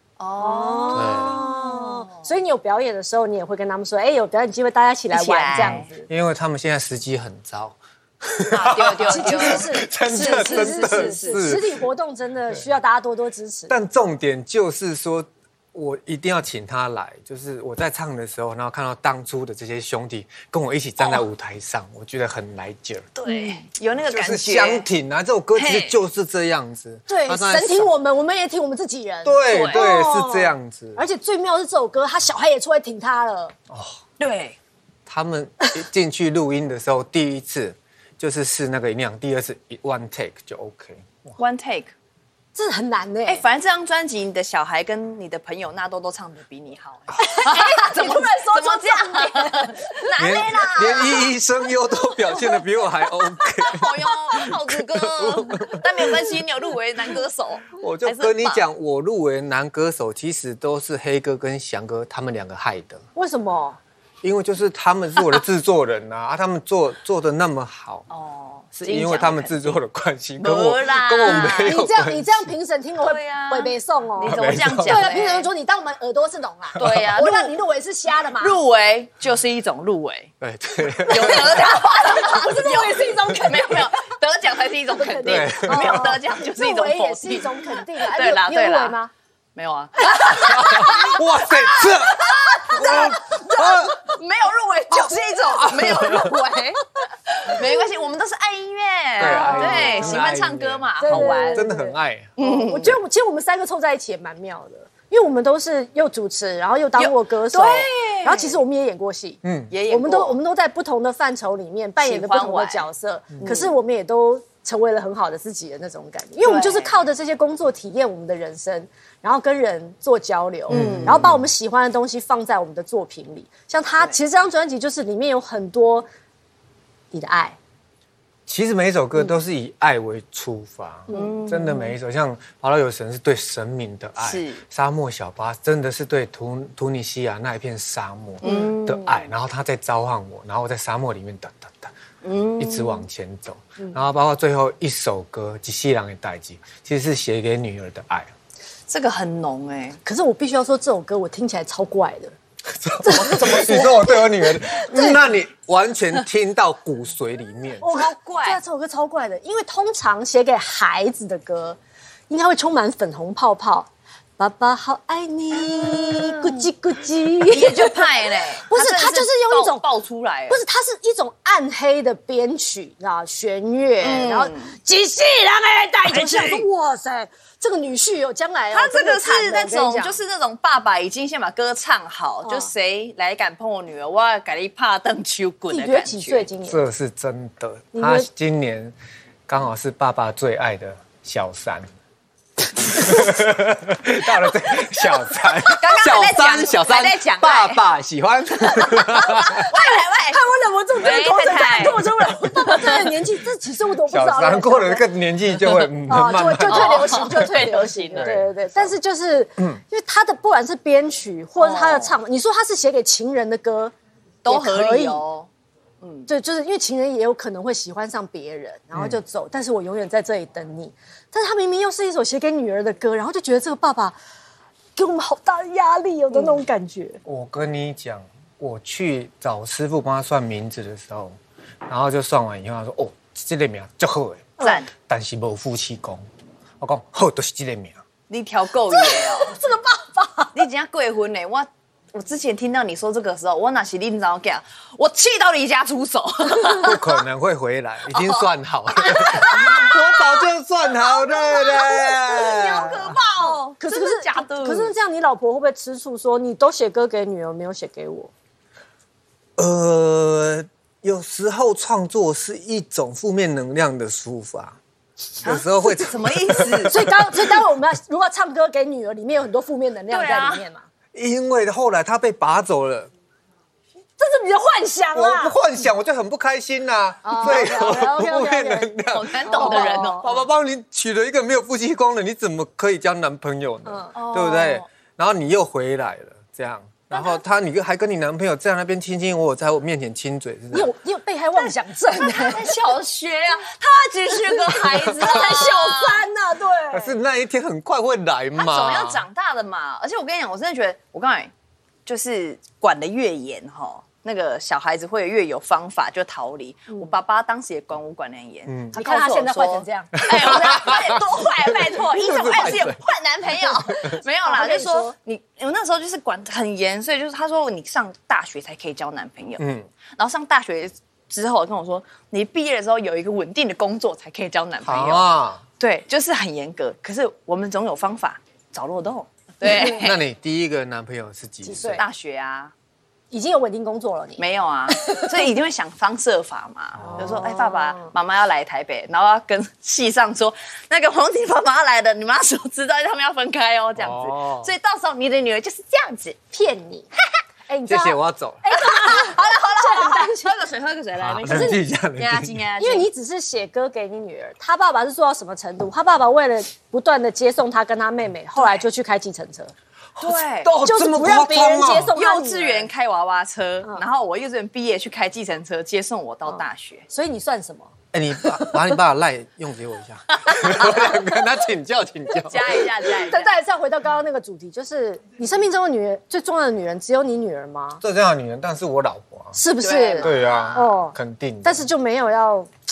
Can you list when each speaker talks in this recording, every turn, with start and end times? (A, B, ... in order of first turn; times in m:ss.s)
0:00.2-0:02.3 A
0:00.4-0:06.1 B
0:00.9-0:01.4 C
0:05.1-0:05.9 A
0:05.5-0:11.8 C
0:08.5-0:11.6 A
0:09.1-0:13.8 B
0:13.7-0:23.1 C
0:21.0-0:21.2 A
0:23.2-0:24.9 A
0:23.2-0:23.6 B
0:24.1-0:27.9 C
0:25.5-0:26.0 A
0:27.1-0:33.5 B
0:29.2-0:31.0 C
0:29.5-0:29.8 A
0:33.7-0:34.0 C
0:34.2-0:34.6 A
0:35.0-0:41.4 C
0:41.4-0:41.9 A
0:42.5-0:43.4 B
0:43.3-0:51.4 A
0:47.2-0:50.0 B
0:50.2-0:56.4 C
0:53.6-0:58.6 A
0:57.7-1:03.0 C
1:03.1-1:03.8 B
1:04.2-1:08.0 C
1:08.1-1:09.8 A
1:08.8-1:12.4 C
1:10.4-1:11.8 A
1:11.3-1:18.6 B
1:13.0-1:15.5 A
1:14.2-1:15.1 C
1:16.8-1:17.1 C
1:16.8-1:17.5 A
1:18.3-1:20.3 A
1:20.4-1:21.8 C
1:21.0-1:29.0 A
1:21.1-1:24.1 B
1:24.9-1:29.1 B
1:25.2-1:26.1 C
1:29.5-1:41.7 A
1:30.4-1:34.0 C
1:30.7-1:31.2 B
1:35.4-1:36.3 C
1:39.2-1:42.3 C
1:39.2-1:40.3 B
1:41.0-2:06.1 B
1:42.4-1:43.0 A
1:47.0-1:48.6 A
1:49.4-1:49.7 C
1:49.7-1:50.4 A
1:52.0-1:52.8 A
1:53.4-1:53.7 A
1:56.4-1:57.0 A
2:00.7-2:01.3 A
2:00.7-2:01.5 C
2:07.1-2:07.6 B
2:08.5-2:21.9 C
2:11.1-2:11.4 B
2:11.1-2:11.9 A
2:14.2-2:14.6 A
2:18.4-2:19.3 A
2:18.4-2:18.7 B
2:22.2-2:23.0 A
2:22.6-2:28.3 C
2:28.9-2:30.0 A
2:30.0-2:32.4 B
2:32.7-2:37.8 C
2:33.0-2:35.3 B
2:37.8-2:41.8 B
2:37.9-2:38.6 A
2:42.3-2:49.8 B
2:45.5-2:46.7 A
2:47.4-2:50.6 A
2:50.5-3:00.2 B
2:54.0-2:54.7 A
2:56.1-2:56.6 A
2:58.7-3:06.5 A
3:02.4-3:02.7 B
3:05.7-3:06.8 B
3:06.6-3:08.9 C
3:07.9-3:08.3 B
3:09.5-3:11.9 C
3:12.9-3:19.6 C
3:15.7-3:17.8 A
3:18.7-3:20.4 A
3:19.5-3:25.1 B
3:21.0-3:23.2 A
3:24.0-3:27.4 C
3:26.0-3:33.9 B
3:26.7-3:28.3 A
3:28.1-3:28.5 C
3:31.6-3:32.2 A
3:34.4-3:35.5 A
3:34.4-3:35.2 B
3:36.0-3:36.3 A
3:36.3-3:44.2 B
3:38.9-3:39.2 C
3:45.0-3:47.2 B
3:46.3-3:46.6 A
3:47.2-3:56.2 C
3:54.6-3:54.9 A
3:56.8-3:58.0 C
3:58.3-3:59.6 A
3:58.9-4:00.6 B
4:00.5-4:07.0 A
4:06.8-4:13.1 C
4:08.1-4:08.5 A
4:09.0-4:10.3 A
4:11.1-4:14.9 A
4:13.4-4:18.3 B
4:19.6-4:24.8 C
4:25.4-4:27.1 C
4:25.4-4:27.1 A
4:26.9-4:30.8 B
4:30.1-4:30.6 A
4:31.1-4:33.1 C
4:34.2-4:35.6 B
4:35.1-4:50.9 C
4:37.2-4:40.3 B
4:39.1-4:40.4 A
4:43.8-4:44.1 B
4:44.1-4:44.8 A
4:50.7-4:52.7 B
4:51.6-4:56.2 A
4:54.6-4:57.1 B
4:56.9-4:59.2 C
4:58.6-5:01.5 A
5:02.0-5:19.6 A
5:08.6-5:09.0 C
5:08.9-5:10.7 B
5:10.2-5:13.0 C
5:13.7-5:14.1 C
5:14.4-5:15.1 B
5:19.6-5:19.9 C
5:20.2-5:25.3 A
5:24.8-5:25.6 C
5:25.8-5:30.2 A
5:29.8-5:32.0 C
5:31.6-5:32.0 B
5:32.0-5:32.7 A
5:33.3-5:34.4 B
5:34.4-5:46.4 A
5:35.0-5:35.3 B
5:37.0-5:38.1 B
5:44.0-5:44.7 C
5:46.5-5:47.1 B
5:47.7-5:50.6 B
5:47.9-5:48.6 C
5:48.7-5:53.1 A
5:51.2-5:52.6 C
5:51.5-5:51.8 B
5:52.8-5:59.7 B
6:00.2-6:02.1 C
6:00.2-6:00.7 A
6:00.8-6:02.9 B
6:02.2-6:07.0 A
6:06.5-6:07.9 B
6:08.1-6:12.8 C
6:10.4-6:11.0 A
6:12.4-6:13.5 A
6:13.2-6:18.0 B
6:18.0-6:19.6 C
6:19.5-6:22.7 B
6:19.8-6:20.9 A
6:20.2-6:21.8 C